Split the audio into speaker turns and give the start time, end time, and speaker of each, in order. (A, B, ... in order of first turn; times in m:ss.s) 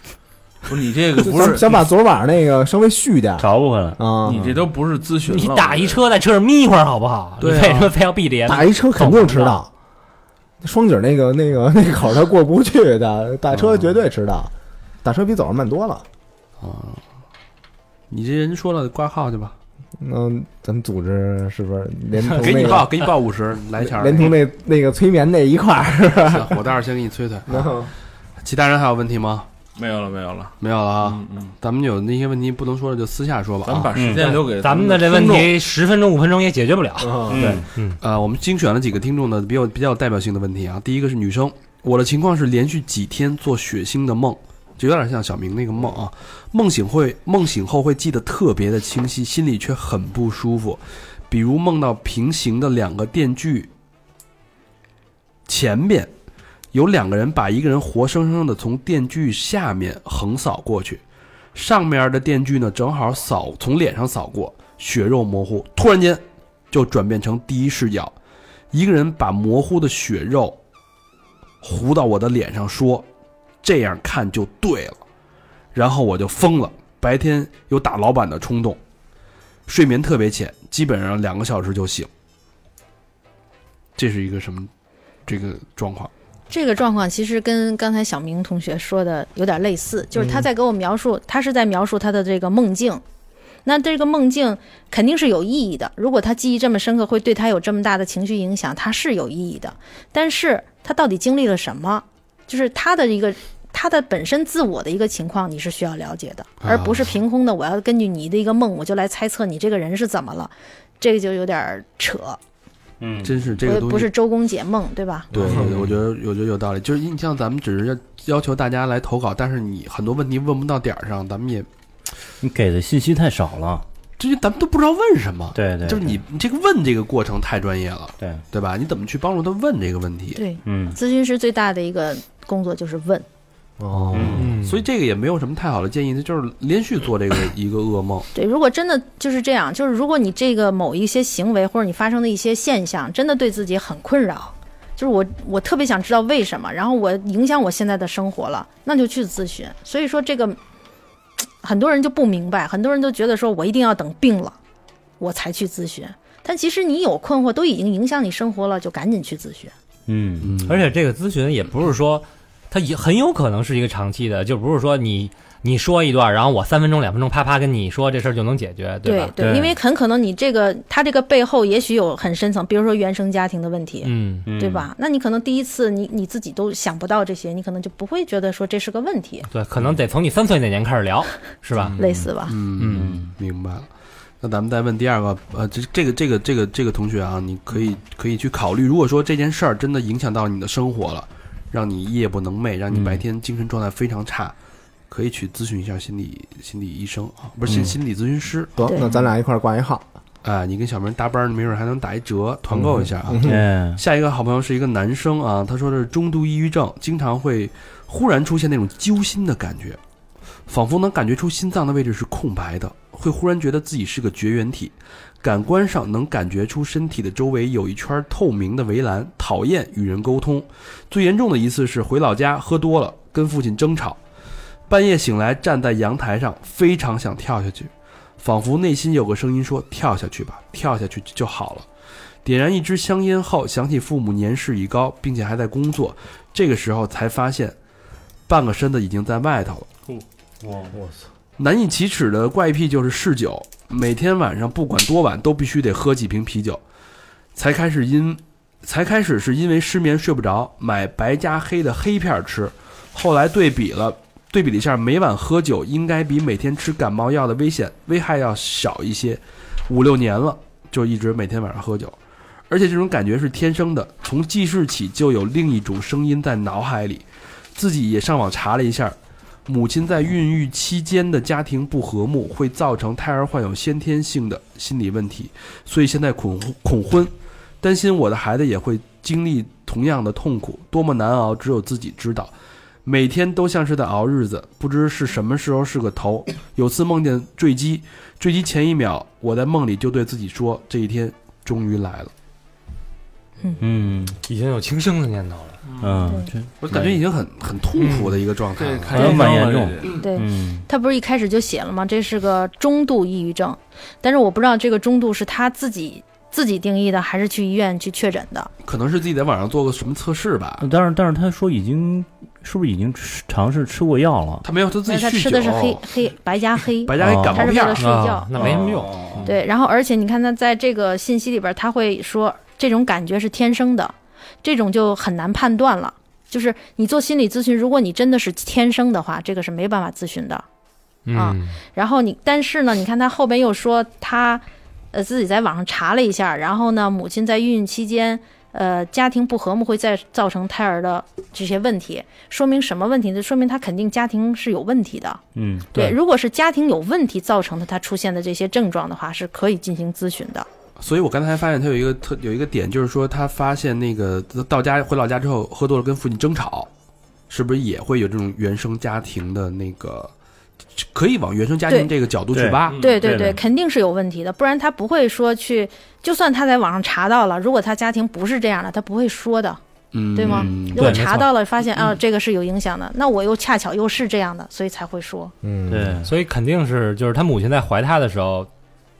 0:00.7-0:01.8 A
0:01.1-0:04.4 B
0:03.4-0:04.6 C
0:04.2-0:06.0 A
0:05.3-0:09.6 D
0:07.4-0:07.9 E
0:08.4-0:09.7 B
0:10.6-0:14.5 B
0:15.0-0:16.0 B
0:16.6-0:17.0 E
0:18.1-0:19.6 E
0:20.0-0:23.0 B
0:22.4-0:24.3 E
0:23.8-0:26.6 B
0:26.2-0:27.9 E
0:27.5-0:27.9 B
0:28.4-0:29.5 E
0:29.8-0:31.6 A
0:30.6-0:33.9 E
0:33.6-0:35.5 A
0:34.0-0:34.4 C
0:34.4-0:38.0 D
0:37.0-0:37.6 B
0:37.3-0:37.6 C
0:38.0-0:53.7 E
0:55.5-0:56.1 E
0:56.7-1:01.0 E
1:01.6-1:08.1 E
1:08.7-1:10.6 E
1:11.6-1:13.0 E
1:13.6-1:15.0 E
1:15.7-1:18.8 E
1:19.7-1:22.1 E
1:24.0-1:24.7 E
1:25.3-1:26.1 E
1:26.5-1:33.0 F
1:30.2-1:30.4 B
1:33.6-1:52.4 F
1:46.6-1:47.1 E
1:53.0-1:53.4 C
1:53.2-1:54.1 E
1:53.6-1:55.3 F
1:55.3-2:01.7 E
1:55.3-1:55.9 B
1:55.5-1:55.9 C
2:02.4-2:03.8 C
2:04.2-2:10.4 E
2:05.6-2:06.2 C
2:10.3-2:13.3 F
2:10.6-2:11.0 C
2:13.8-2:14.8 B
2:14.1-2:18.3 E
2:14.1-2:14.5 C
2:14.3-2:14.8 D
2:18.3-2:30.6 F
2:31.6-2:34.6 F
2:35.2-2:39.7 F
2:40.1-2:40.9 C
2:40.4-2:40.8 E
2:40.7-2:49.4 D
2:49.0-2:59.5 F
2:49.4-2:49.8 C
2:54.0-2:54.5 D
2:54.4-2:54.9 C
2:59.5-3:02.2 D
3:01.8-3:02.2 B
3:02.0-3:02.5 F
3:02.4-3:03.9 E
3:02.8-3:03.2 D
3:02.9-3:03.3 C
3:04.4-3:14.5 E
3:12.9-3:13.2 C
3:15.1-3:18.8 E
3:17.7-3:18.0 C
3:18.8-3:20.1 B
3:20.4-3:30.0 E
3:22.7-3:23.6 B
3:23.4-3:24.0 C
3:30.7-3:44.2 E
3:44.9-3:51.9 E
3:52.4-3:57.7 E
3:58.5-3:59.9 E
4:00.6-4:00.9 C
4:00.9-4:01.2 B
4:01.6-4:06.8 E
4:07.6-4:22.2 E
4:22.7-4:42.5 E
4:43.0-4:52.3 E
4:53.8-4:54.4 C
4:54.4-4:55.8 D
4:55.8-4:56.3 A
4:56.0-4:57.2 C
4:56.8-4:59.5 E
4:58.0-4:58.3 D
4:58.8-5:00.2 A
4:59.1-5:00.9 C
5:00.2-5:08.7 F
5:08.8-5:10.8 E
5:10.8-5:14.6 C
5:14.6-5:16.0 E
5:15.0-5:18.8 F
5:17.0-5:18.1 E
5:17.2-5:17.8 C
5:18.0-5:19.3 D
5:18.5-5:19.5 C
5:19.4-5:30.6 F
5:31.2-5:31.8 D
5:31.3-5:50.7 F
5:45.5-5:46.2 C
5:51.0-5:56.9 E
5:57.5-6:00.3 E
6:01.0-6:03.0 E
6:02.5-6:02.8 C
6:02.9-6:03.5 A
6:03.0-6:09.8 F
6:10.1-6:11.2 E
6:10.3-6:15.5 F
6:10.9-6:11.5 D
6:15.6-6:16.2 B
6:15.9-6:16.3 C
6:16.2-6:18.7 D